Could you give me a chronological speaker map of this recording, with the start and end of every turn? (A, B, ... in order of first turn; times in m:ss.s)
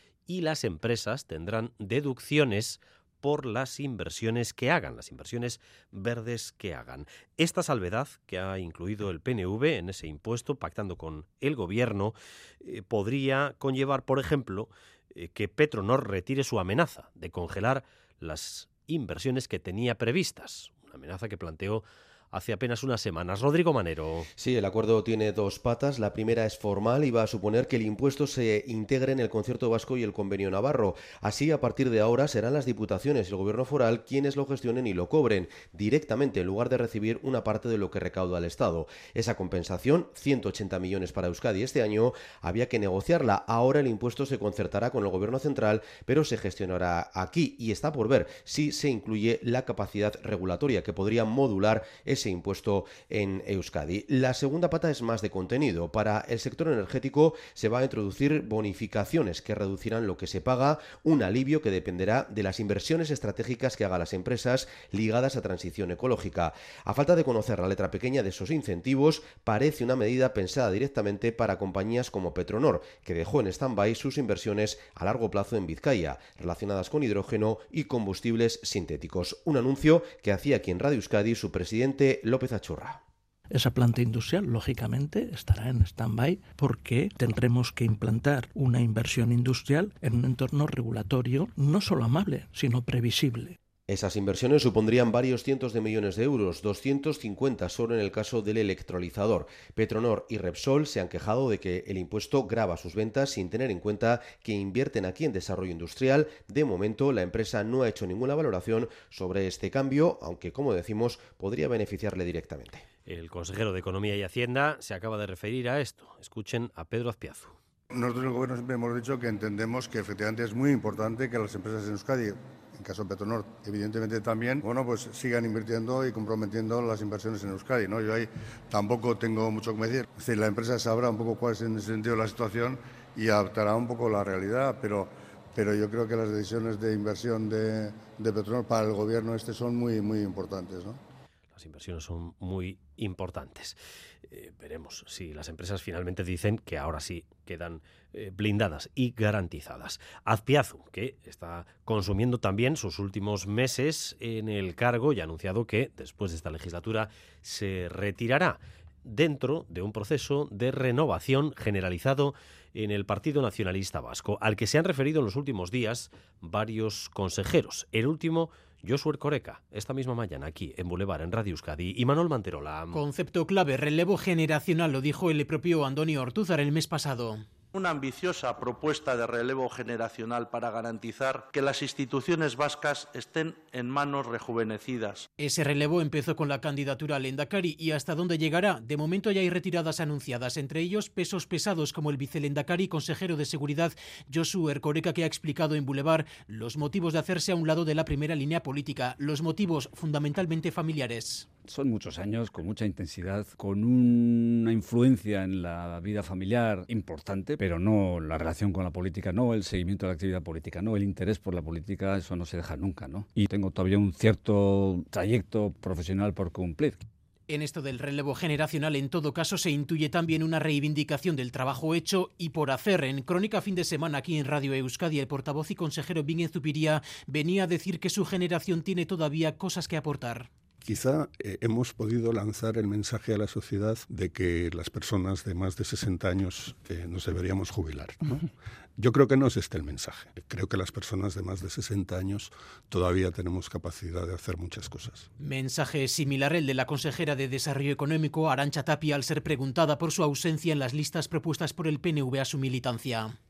0:00.3-0:24.3 A
0:24.4-1:23.0 B
1:23.5-1:33.6 C
1:33.9-1:52.8 B
1:53.1-1:57.6 A
1:57.9-2:21.0 D
2:21.5-2:23.8 A
2:24.3-2:53.0 A
2:52.9-2:57.4 E
2:57.7-3:05.2 F
3:05.4-3:21.5 E
3:21.6-3:37.0 G
3:37.5-3:50.5 E
3:50.8-4:05.3 H
4:05.4-4:13.4 E